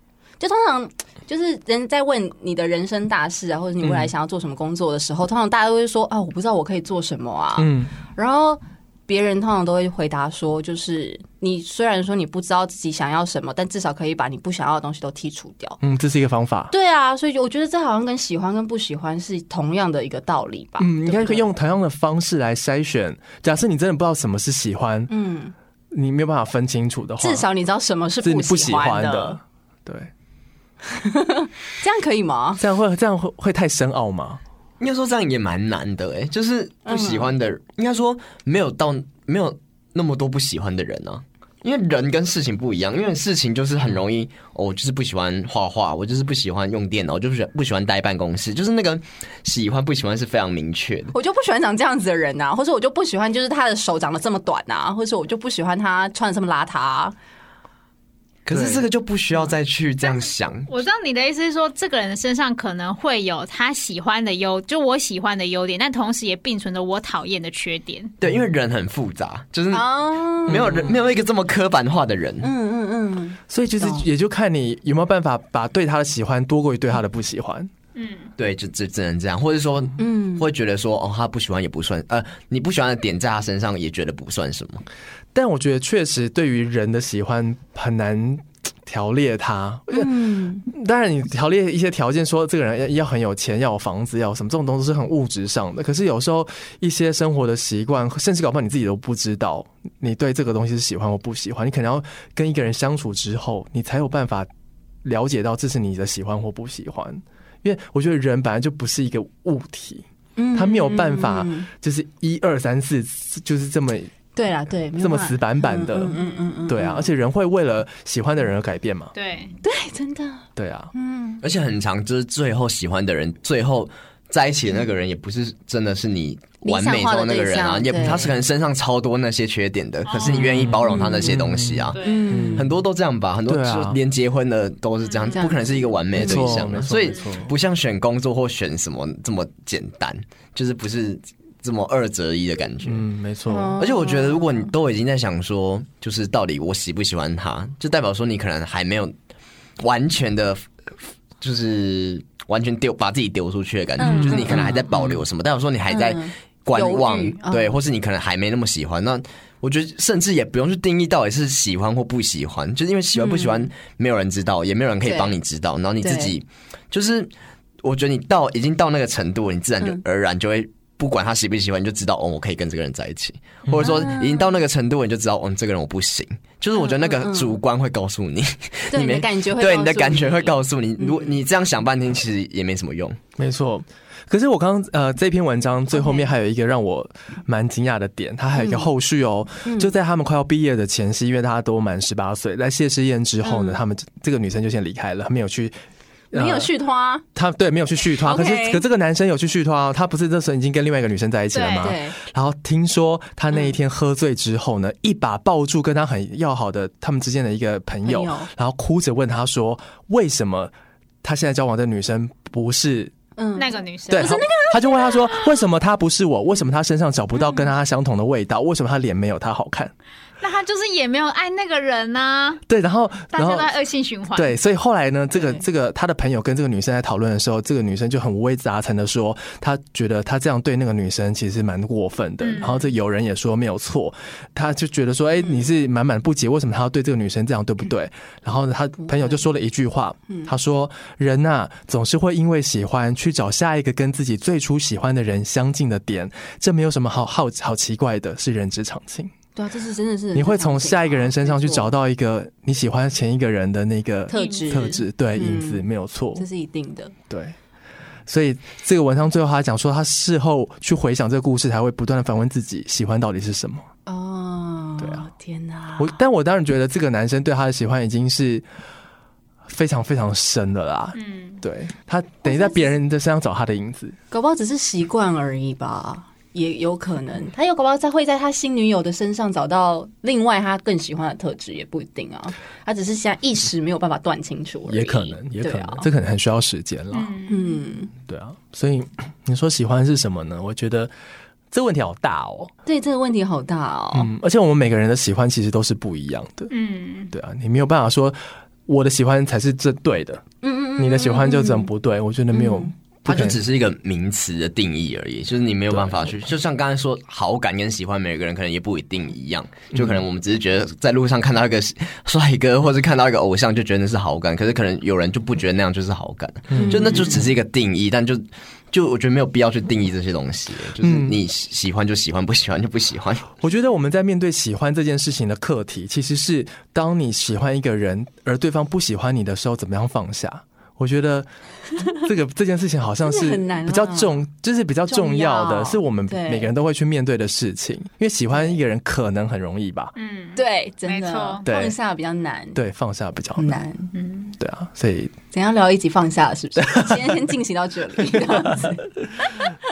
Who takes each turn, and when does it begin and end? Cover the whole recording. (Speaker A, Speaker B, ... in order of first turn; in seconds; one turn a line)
Speaker A: 0.4-15.8
Speaker B: 3.8-4.1
Speaker B: 7.6-7.9
Speaker B: 15.8-16.7
Speaker A: 16.7-21.5
Speaker B: 20.8-25.1
Speaker A: 25.1-25.5
Speaker B: 25.9-27.4
Speaker A: 27.2-29.4
Speaker B: 28.2-30.1
Speaker A: 30.8-32.6
Speaker B: 32.6-34.4
Speaker C: 34.8-51.1
Speaker A: 36.9-37.3
Speaker A: 51.1-57.1
Speaker C: 58.4-60.7
Speaker B: 58.5-58.8
Speaker D: 60.0-68.1
Speaker C: 68.2-69.8
Speaker A: 69.7-70.8
Speaker C: 70.4-72.5
Speaker B: 70.5-70.9
Speaker A: 72.4-74.1
Speaker B: 73.5-77.7
Speaker D: 77.9-78.3
Speaker C: 78.4-84.8
Speaker A: 80.0-80.5
Speaker B: 85.3-104.5
Speaker A: 89.9-90.7
Speaker B: 105.0-114.1
Speaker A: 110.3-111.7
Speaker A: 114.3-117.1
Speaker B: 115.0-119.1
Speaker D: 119.1-119.5
Speaker A: 119.6-121.4
Speaker B: 120.6-120.9
Speaker C: 121.4-132.0
Speaker A: 126.6-128.4
Speaker D: 130.1-130.8
Speaker B: 130.4-132.7
Speaker A: 130.9-131.3
Speaker D: 131.9-132.3
Speaker A: 132.0-132.7
Speaker C: 132.5-143.0
Speaker B: 133.5-134.0
Speaker D: 135.0-135.5
Speaker A: 135.3-136.5
Speaker B: 136.1-137.5
Speaker B: 142.8-143.8
Speaker A: 143.5-144.7
Speaker C: 143.8-149.1
Speaker C: 149.8-150.7
Speaker C: 151.4-167.3
Speaker A: 154.0-154.8
Speaker B: 154.0-155.2
Speaker A: 155.9-157.8
Speaker A: 163.1-163.7
Speaker A: 165.0-165.3
Speaker A: 166.0-166.3
Speaker C: 167.8-183.2
Speaker B: 173.7-173.9
Speaker A: 173.8-174.5
Speaker A: 176.8-177.6
Speaker A: 178.9-181.4
Speaker B: 183.4-195.7
Speaker A: 185.9-186.3
Speaker A: 188.6-188.9
Speaker A: 189.6-189.9
Speaker A: 193.4-193.8
Speaker B: 196.3-196.7
Speaker A: 196.3-197.2
Speaker B: 197.3-213.1
Speaker A: 198.2-198.8
Speaker D: 201.5-201.9
Speaker A: 201.8-202.2
Speaker A: 208.0-208.5
Speaker A: 213.4-215.4
Speaker D: 213.6-214.4
Speaker B: 214.1-219.9
Speaker A: 217.4-217.7
Speaker D: 220.4-222.6
Speaker B: 222.7-223.7
Speaker D: 223.3-224.6
Speaker B: 224.3-249.3
Speaker D: 232.4-232.8
Speaker A: 239.0-239.4
Speaker A: 249.5-251.9
Speaker B: 250.3-256.4
Speaker A: 254.3-257.1
Speaker D: 254.3-255.0
Speaker B: 257.3-257.5
Speaker B: 258.3-263.8
Speaker A: 264.1-266.2
Speaker B: 265.0-265.3
Speaker B: 266.0-268.7
Speaker B: 269.6-274.1
Speaker D: 271.1-271.6
Speaker A: 272.4-272.9
Speaker A: 274.3-286.1
Speaker B: 284.9-287.4
Speaker D: 287.1-287.8
Speaker A: 287.5-288.1
Speaker B: 288.2-291.1
Speaker B: 291.7-292.7
Speaker A: 292.9-294.3
Speaker B: 294.1-296.7
Speaker D: 296.7-297.3
Speaker B: 297.3-300.4
Speaker A: 300.6-301.9
Speaker B: 301.0-303.6
Speaker A: 302.5-302.9
Speaker C: 303.2-323.5
Speaker B: 305.9-306.3
Speaker B: 309.9-310.2
Speaker B: 316.7-317.4
Speaker A: 316.7-317.5
Speaker B: 321.0-321.4
Speaker B: 323.6-340.1
Speaker A: 333.2-334.4
Speaker A: 335.1-336.7
Speaker D: 340.1-341.6
Speaker A: 340.6-342.8
Speaker B: 341.6-341.9
Speaker B: 342.7-343.8
Speaker A: 343.6-344.1
Speaker D: 344.1-344.5
Speaker B: 344.6-345.3
Speaker A: 345.5-349.8
Speaker B: 346.8-347.4
Speaker B: 348.2-348.9